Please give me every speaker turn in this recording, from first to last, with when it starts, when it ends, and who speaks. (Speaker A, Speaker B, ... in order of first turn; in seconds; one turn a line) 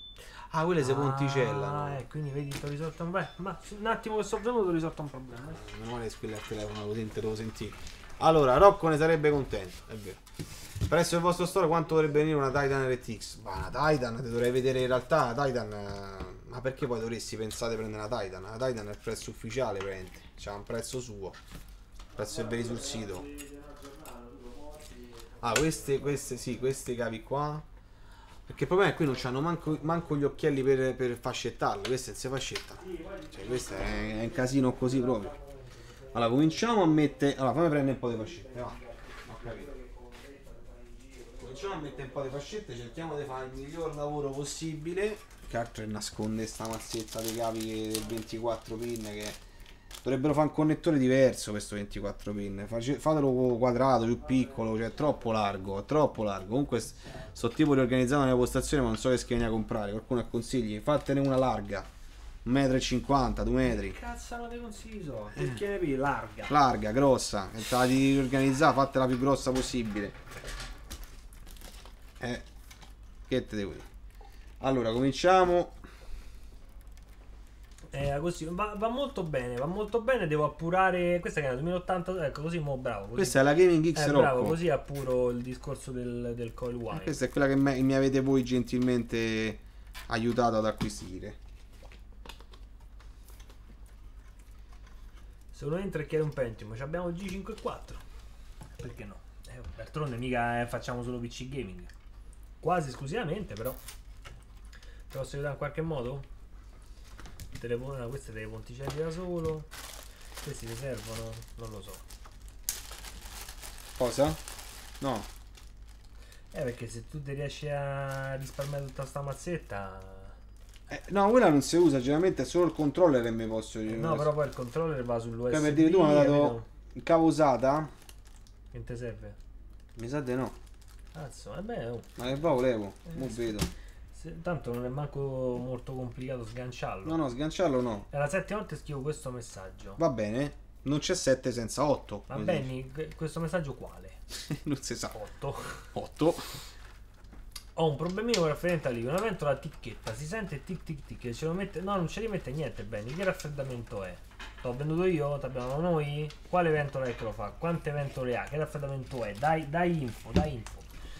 Speaker A: 0.5-2.0
Speaker B: 0.8-5.7
Speaker A: 5.5-10.2
Speaker A: 10.8-21.4
Speaker A: 22.2-23.3
Speaker B: 22.2-26.8
Speaker A: 25.4-27.6
Speaker A: 28.5-35.3
Speaker B: 29.1-30.4
Speaker B: 32.8-43.2
Speaker A: 36.1-39.7
Speaker A: 41.4-49.4
Speaker A: 50.0-61.9
Speaker B: 54.1-55.5
Speaker B: 57.0-57.3
Speaker A: 62.5-64.0
Speaker B: 63.6-66.6
Speaker A: 65.4-65.6
Speaker A: 66.5-70.1
Speaker A: 73.3-73.9
Speaker A: 74.6-75.8
Speaker B: 77.9-83.4
Speaker A: 83.2-84.6
Speaker B: 84.0-87.2
Speaker A: 86.9-91.4
Speaker B: 95.5-98.0
Speaker B: 98.8-101.9
Speaker B: 102.6-103.8
Speaker B: 105.1-106.3
Speaker B: 107.5-109.7
Speaker B: 110.4-112.0
Speaker A: 114.0-114.4
Speaker A: 115.0-115.3
Speaker B: 116.5-120.4
Speaker A: 120.9-124.3
Speaker B: 123.9-126.7
Speaker A: 125.5-127.9
Speaker B: 128.7-129.4
Speaker A: 130.0-130.6
Speaker B: 131.1-132.1
Speaker A: 132.2-133.7
Speaker B: 133.1-133.6
Speaker B: 134.1-137.2
Speaker A: 137.1-138.1
Speaker B: 138.1-140.0
Speaker A: 140.0-142.7
Speaker B: 142.3-144.2
Speaker A: 144.5-145.2
Speaker B: 145.1-145.9
Speaker A: 145.9-146.6
Speaker B: 147.8-160.9